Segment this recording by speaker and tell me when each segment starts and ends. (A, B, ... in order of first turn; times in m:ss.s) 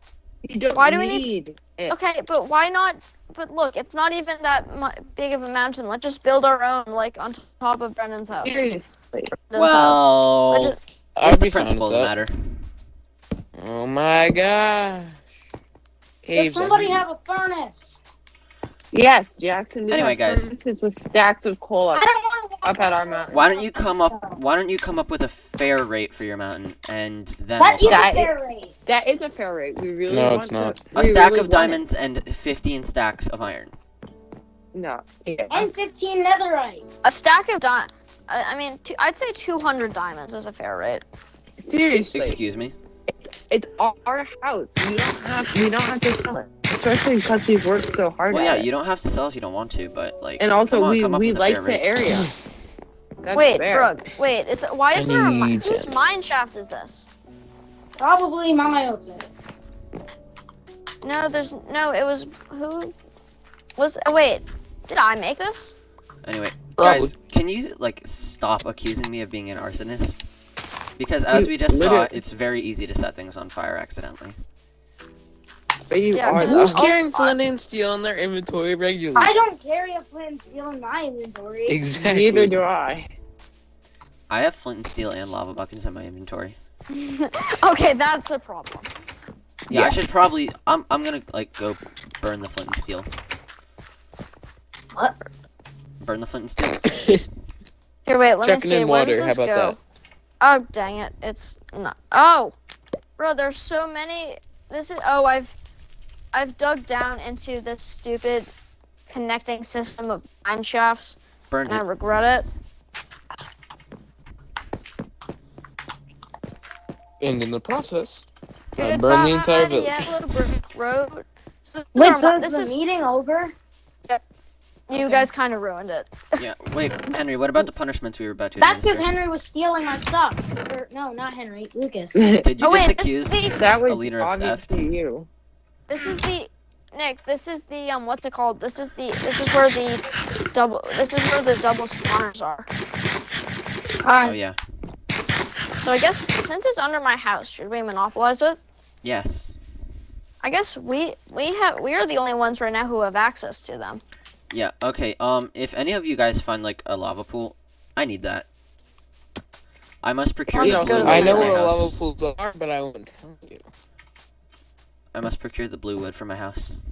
0:00.4-0:02.0 A
0:00.7-0:01.3 B
0:01.9-0:08.6 B
0:08.3-0:09.3 A
0:09.5-0:10.8 B
0:09.6-0:12.3 C
0:11.2-0:12.1 D
0:13.6-0:15.2 D
0:16.2-0:17.0 D
0:16.3-0:18.0 E
0:18.9-0:22.1 A
0:19.9-0:20.5 C
0:21.9-0:24.4 E
0:22.6-0:23.4 A
0:23.3-0:28.1 C
0:27.6-0:28.7 E
0:27.8-0:28.3 A
0:28.9-0:31.8 A
0:30.1-0:30.8 D
0:31.0-0:33.7 C
0:34.7-0:35.7 A
0:35.5-0:36.8 E
0:37.0-0:41.0 B
0:41.6-0:42.4 A
0:42.1-0:42.8 C
0:43.1-0:48.7 A
0:48.3-0:51.9 C
0:50.4-0:52.3 A
0:53.2-0:53.9 A
0:53.3-0:57.1 B
0:54.9-0:56.0 D
0:58.0-0:59.3 E
1:01.0-1:02.9 B
1:03.8-1:05.8 B
1:06.2-1:10.3 C
1:06.8-1:07.1 D
1:11.0-1:14.4 C
1:11.3-1:12.2 A
1:15.9-1:16.9 A
1:16.1-1:17.4 B
1:16.3-1:19.3 D
1:19.2-1:21.8 E
1:21.7-1:22.6 D
1:22.0-1:23.1 A
1:24.3-1:26.6 C
1:26.9-1:28.9 B
1:29.7-1:30.0 D
1:29.7-1:33.1 C
1:36.0-1:36.8 C
1:36.7-1:37.2 D
1:38.1-1:39.8 B
1:38.4-1:39.8 D
1:40.4-1:42.6 B
1:43.2-1:45.6 B
1:46.3-1:48.5 B
1:49.1-1:52.5 B
1:51.5-1:51.8 C
1:57.2-1:58.3 D
1:58.8-2:02.8 B
1:58.8-2:00.1 D
2:01.9-2:03.6 E
2:04.9-2:06.4 B
2:06.4-2:09.0 C
2:08.6-2:12.3 E
2:12.2-2:12.7 A
2:12.4-2:14.9 C
2:12.6-2:13.6 B
2:13.6-2:15.3 A
2:15.9-2:22.7 B
2:24.0-2:24.4 E
2:24.2-2:24.6 C
2:25.8-2:28.6 B
2:29.0-2:29.5 C
2:30.4-2:34.0 B
2:34.5-2:38.5 C
2:40.0-2:42.0 C
2:40.5-2:41.6 B
2:40.6-2:41.6 A
2:41.0-2:43.6 D
2:45.1-2:46.8 C